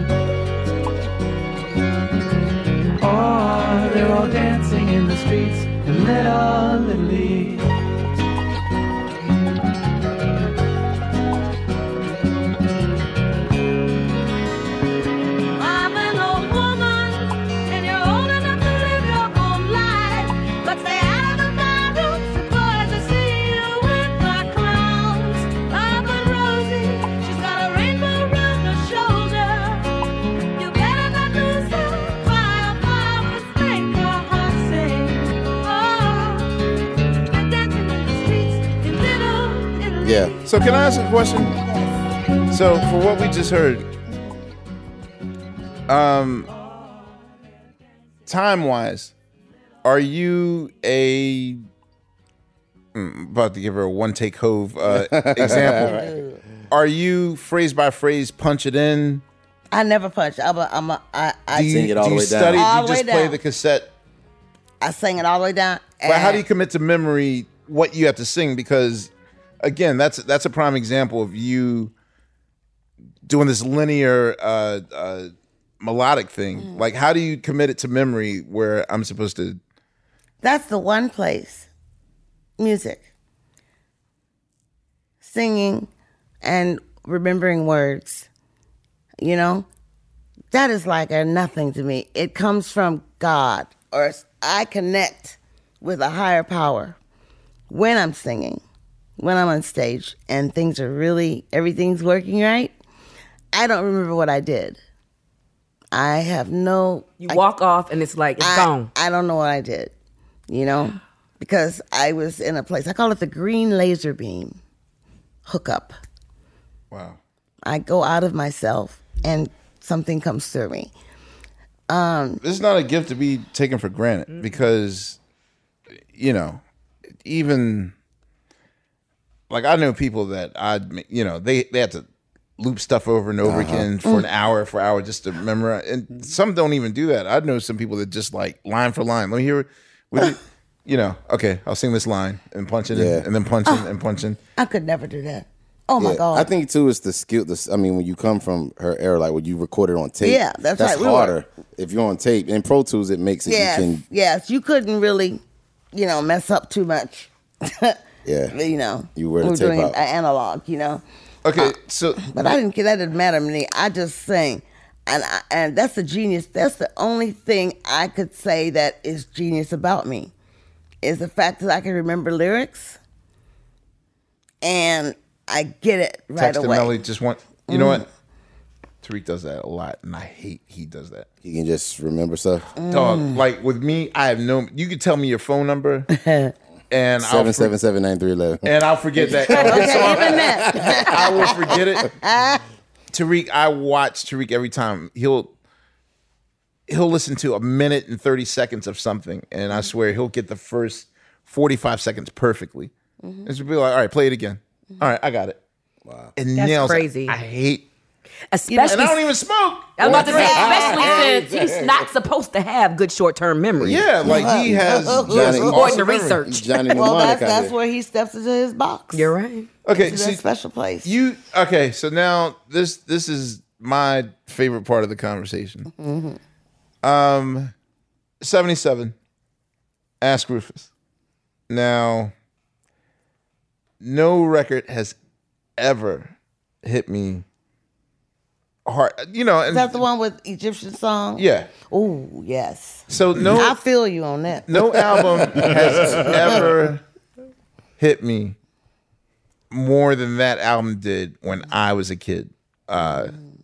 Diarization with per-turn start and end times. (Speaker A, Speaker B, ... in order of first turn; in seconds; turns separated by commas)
Speaker A: 3.0-7.7, Speaker B: 15.6-30.0, Speaker B: 30.6-36.6, Speaker B: 37.3-40.5, Speaker C: 40.0-40.3, Speaker D: 40.5-41.5, Speaker E: 41.5-41.9, Speaker D: 42.5-43.9, Speaker D: 45.9-46.5, Speaker D: 48.3-49.1, Speaker D: 49.8-51.6, Speaker D: 52.9-56.1, Speaker C: 54.9-55.9, Speaker E: 55.4-56.4, Speaker D: 56.7-59.2, Speaker E: 59.7-62.0, Speaker D: 61.5-63.9, Speaker C: 61.6-62.7, Speaker E: 62.5-63.4, Speaker E: 64.8-66.4, Speaker D: 66.0-71.9, Speaker D: 73.3-79.6, Speaker E: 80.4-81.7, Speaker E: 82.6-83.1, Speaker E: 85.2-85.9, Speaker E: 86.4-88.3, Speaker E: 89.2-89.7, Speaker E: 90.5-97.0, Speaker E: 97.7-98.6, Speaker E: 99.2-102.7, Speaker E: 103.5-104.8, Speaker E: 105.9-107.4, Speaker F: 107.2-108.9, Speaker E: 108.4-109.9, Speaker E: 110.5-114.6, Speaker E: 115.5-116.0, Speaker D: 116.9-117.2, Speaker E: 117.7-120.9, Speaker E: 121.9-122.4, Speaker D: 122.4-125.2, Speaker D: 126.1-126.6, Speaker D: 127.2-127.9, Speaker D: 129.5-132.1, Speaker D: 132.6-144.4, Speaker C: 133.4-133.9, Speaker C: 142.9-143.2, Speaker E: 144.6-146.5, Speaker C: 146.0-154.0, Speaker E: 150.2-151.3, Speaker E: 153.5-155.4, Speaker E: 155.9-158.0, Speaker C: 158.2-158.6, Speaker E: 158.5-161.0, Speaker C: 159.2-160.0, Speaker D: 161.4-162.2, Speaker E: 161.6-170.3, Speaker E: 171.0-173.0, Speaker E: 174.6-177.0, Speaker D: 176.4-178.1, Speaker E: 177.7-178.1, Speaker D: 179.0-181.3, Speaker C: 181.4-182.7, Speaker E: 182.8-183.4, Speaker D: 182.9-186.1, Speaker E: 186.1-186.5, Speaker D: 186.9-187.7, Speaker C: 187.2-191.8, Speaker D: 188.6-192.1, Speaker E: 189.5-192.6, Speaker D: 193.1-195.5, Speaker D: 196.9-202.9, Speaker E: 203.2-203.5, Speaker D: 203.5-205.6, Speaker C: 206.1-206.3, Speaker D: 206.4-207.9, Speaker F: 206.6-207.4, Speaker F: 208.5-209.2, Speaker E: 208.7-209.0, Speaker D: 208.9-210.9, Speaker F: 210.0-214.1, Speaker C: 210.0-212.1, Speaker E: 210.1-211.2, Speaker D: 213.8-216.4, Speaker C: 213.8-217.7, Speaker E: 214.3-215.7, Speaker F: 215.6-217.0, Speaker E: 216.9-219.3, Speaker F: 219.1-219.7, Speaker D: 219.8-220.4, Speaker E: 220.0-221.1, Speaker D: 221.0-225.9, Speaker E: 225.9-226.4, Speaker D: 227.0-227.7, Speaker D: 228.4-229.2, Speaker D: 230.2-230.9, Speaker D: 231.7-232.3, Speaker D: 234.0-235.2, Speaker D: 235.8-237.5, Speaker D: 238.9-240.0, Speaker E: 239.7-245.2, Speaker D: 241.4-241.7, Speaker D: 243.1-243.8, Speaker D: 244.7-247.0, Speaker C: 245.5-246.3, Speaker D: 248.0-248.6, Speaker D: 249.7-253.3